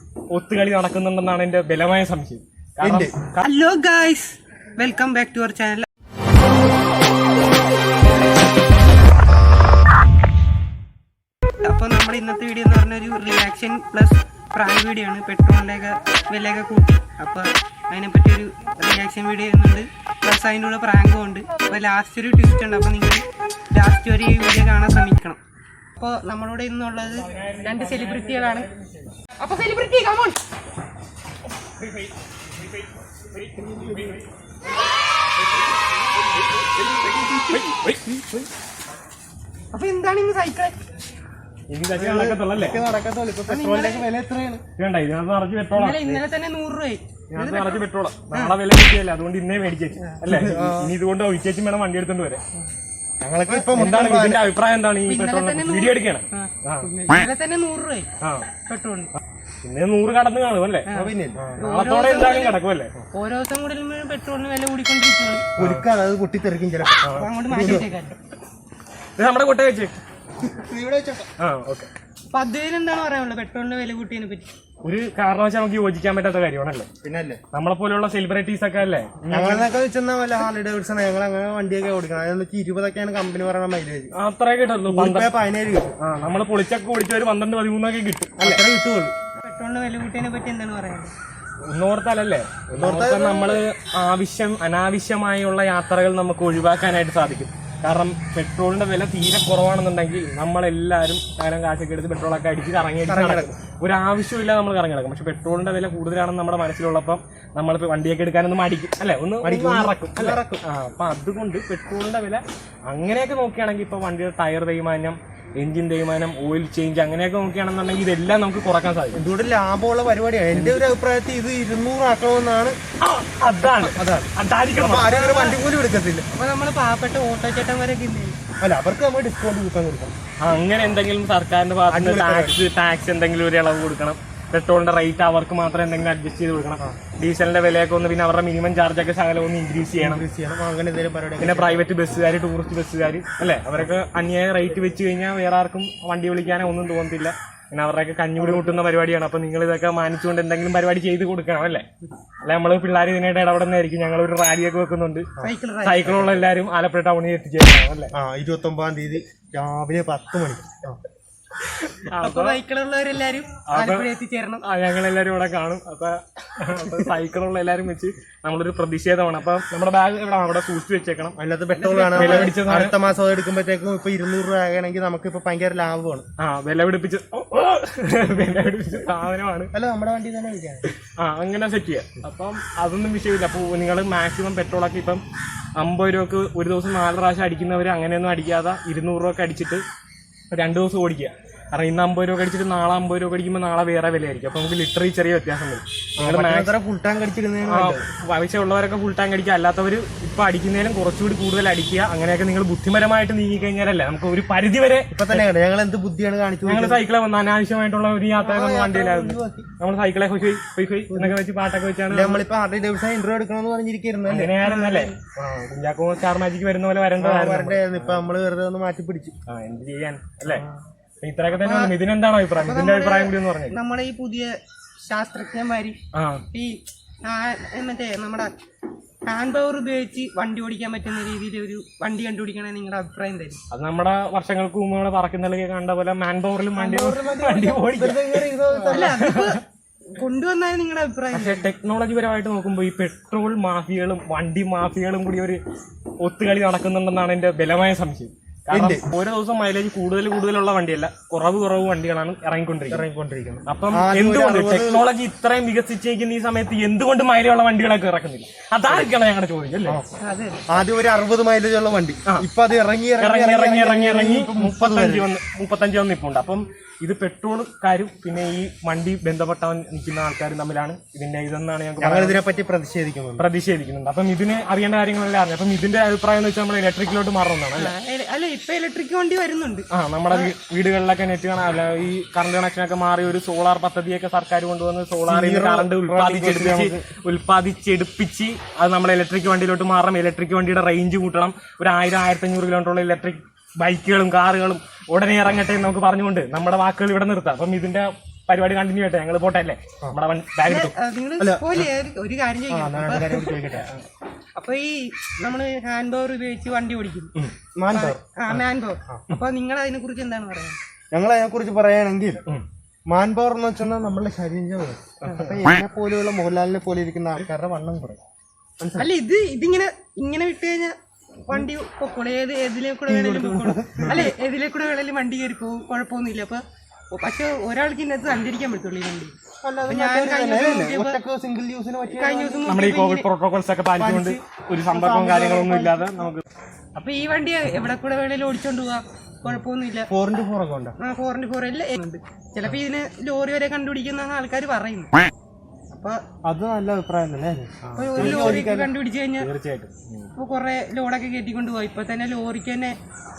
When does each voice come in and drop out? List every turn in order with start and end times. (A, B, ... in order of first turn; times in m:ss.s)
0:00.3-0:03.5 A
0:02.8-0:03.2 B
0:03.4-0:05.9 C
0:11.6-0:25.4 C
0:26.0-0:28.7 C
0:27.1-0:29.1 A
0:29.4-0:30.4 C
0:31.8-0:32.1 A
0:32.8-0:34.3 A
0:36.6-0:38.3 A
0:39.7-0:40.8 C
0:41.7-0:42.8 A
0:41.9-0:44.6 B
0:43.5-0:44.1 C
0:44.8-0:46.2 A
0:45.7-0:48.6 C
0:47.3-0:52.4 A
0:50.3-0:51.0 B
0:53.2-0:54.4 B
0:53.5-0:54.0 C
0:53.8-0:56.9 A
0:55.1-0:58.1 C
0:58.2-0:58.5 A
0:58.7-0:59.1 C
0:59.6-1:00.9 A
1:00.9-1:02.6 C
1:00.9-1:01.6 B
1:01.6-1:02.9 A
1:03.1-1:05.5 C
1:05.6-1:07.9 B
1:05.6-1:05.8 A
1:07.0-1:07.7 A
1:07.2-1:08.2 C
1:09.2-1:10.0 A
1:10.4-1:11.3 B
1:11.4-1:11.9 A
1:12.3-1:14.5 C
1:14.8-1:16.9 A
1:17.0-1:17.4 B
1:17.5-1:19.7 A
1:19.3-1:24.1 B
1:24.1-1:25.3 A
1:24.9-1:25.9 B
1:26.0-1:28.6 A
1:28.4-1:29.1 B
1:29.4-1:31.1 C
1:31.6-1:59.2 A
1:32.7-1:33.6 B
1:43.1-1:43.5 B
1:49.4-1:50.6 B
1:59.1-2:02.8 B
2:00.5-2:00.8 A
2:03.0-2:05.1 A
2:03.8-2:06.3 B
2:05.0-2:05.6 C
2:06.3-2:08.4 C
2:08.6-2:10.1 B
2:10.4-2:20.2 A
2:11.9-2:12.6 B
2:19.9-2:21.8 B
2:21.4-2:31.9 A
2:28.4-2:28.7 B
2:32.4-2:35.3 A
2:35.4-2:36.3 C
2:35.8-2:38.1 A
2:38.1-2:41.0 B
2:41.7-2:42.6 A
2:42.2-2:44.6 C
2:43.7-2:44.1 A
2:44.6-2:51.4 A
2:51.4-2:56.3 B
2:51.7-2:52.6 C
2:52.2-2:53.0 A
2:56.4-2:59.7 A
2:59.7-3:00.8 B
3:01.0-3:05.2 A
3:05.8-3:09.8 A
3:10.5-3:16.7 A
3:16.2-3:18.0 B
3:17.7-3:25.4 A
3:25.1-3:27.0 B
3:26.6-3:32.4 A
3:28.4-3:29.7 B
3:31.1-3:31.4 B
3:32.1-3:34.6 B
3:34.3-3:38.2 A
3:34.6-3:35.2 C
3:37.2-3:39.4 B
3:39.5-3:40.6 A
3:40.5-3:40.8 B
3:41.2-3:43.8 A
3:41.6-3:41.9 C
3:42.6-3:46.0 C
3:46.1-3:46.4 A
3:46.5-3:48.5 C
3:49.3-3:53.6 C
3:53.7-3:59.6 A
3:56.8-3:59.3 B
3:58.9-3:59.6 C
4:00.2-4:01.6 C
4:01.3-4:05.6 A
4:06.2-4:13.0 A
4:08.7-4:09.0 B
4:12.9-4:15.1 B
4:13.7-4:20.0 A
4:20.2-4:20.6 C
4:20.7-4:25.3 B
4:23.2-4:32.4 A
4:32.0-4:33.5 B
4:33.4-4:37.9 A
4:37.7-4:40.5 C
4:39.9-5:00.9 A
4:45.3-4:47.1 B
5:00.6-5:03.5 C
5:01.4-5:01.9 B
5:02.7-5:03.9 B
5:04.6-5:07.3 C
5:07.8-5:08.2 B
5:07.9-5:10.8 C
5:11.1-5:12.4 B
5:13.1-5:18.2 B
5:15.2-5:15.5 A
5:18.8-5:19.1 B
5:19.0-5:29.4 C
5:23.1-5:24.3 B
5:29.6-5:32.8 B
5:29.9-5:31.2 C
5:32.1-5:33.3 C
5:32.7-5:36.4 A
5:34.0-5:36.3 B
5:37.0-5:40.1 C
5:40.1-5:41.0 B
5:41.0-5:45.2 C
5:45.9-5:46.2 C
5:46.4-5:48.9 B
5:47.8-5:48.7 A
5:48.0-5:49.5 C
5:49.4-5:50.3 A
5:50.4-5:53.0 C